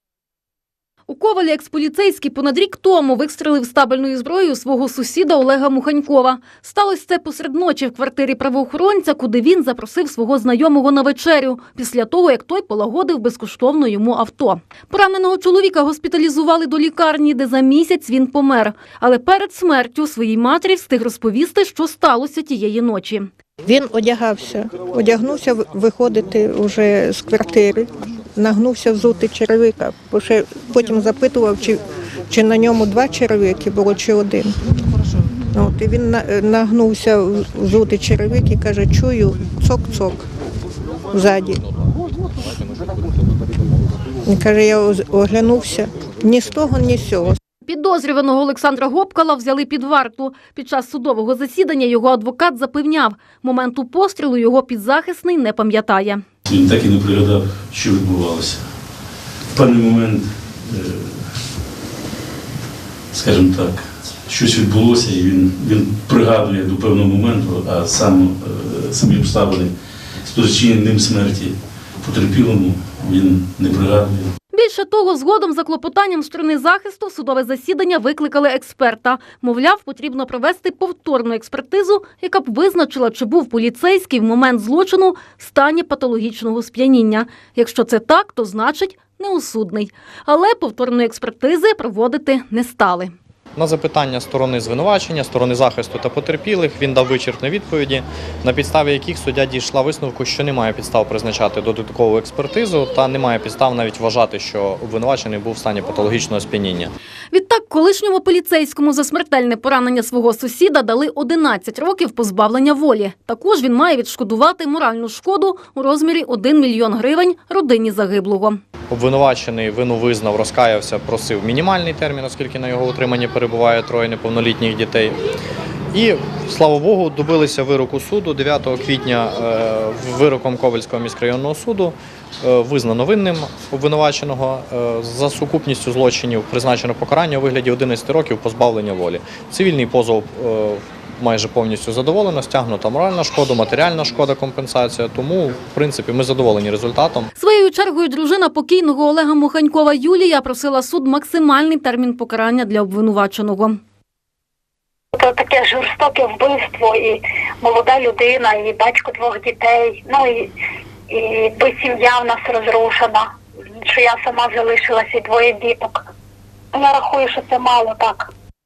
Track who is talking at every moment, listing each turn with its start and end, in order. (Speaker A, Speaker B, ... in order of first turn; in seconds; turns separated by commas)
Speaker A: 1.1-23.3, Speaker B: 23.6-34.5, Speaker B: 35.5-40.3, Speaker B: 41.1-41.6, Speaker B: 44.3-47.4, Speaker A: 47.6-56.2, Speaker C: 56.5-58.6, Speaker C: 59.5-61.3, Speaker C: 63.1-74.3, Speaker A: 74.5-93.1, Speaker D: 93.5-106.9, Speaker A: 107.3-118.6, Speaker D: 118.9-125.2, Speaker D: 125.9-147.3, Speaker A: 147.3-153.8, Speaker E: 155.1-160.5, Speaker E: 161.1-163.3, Speaker E: 163.8-166.1, Speaker E: 166.7-168.3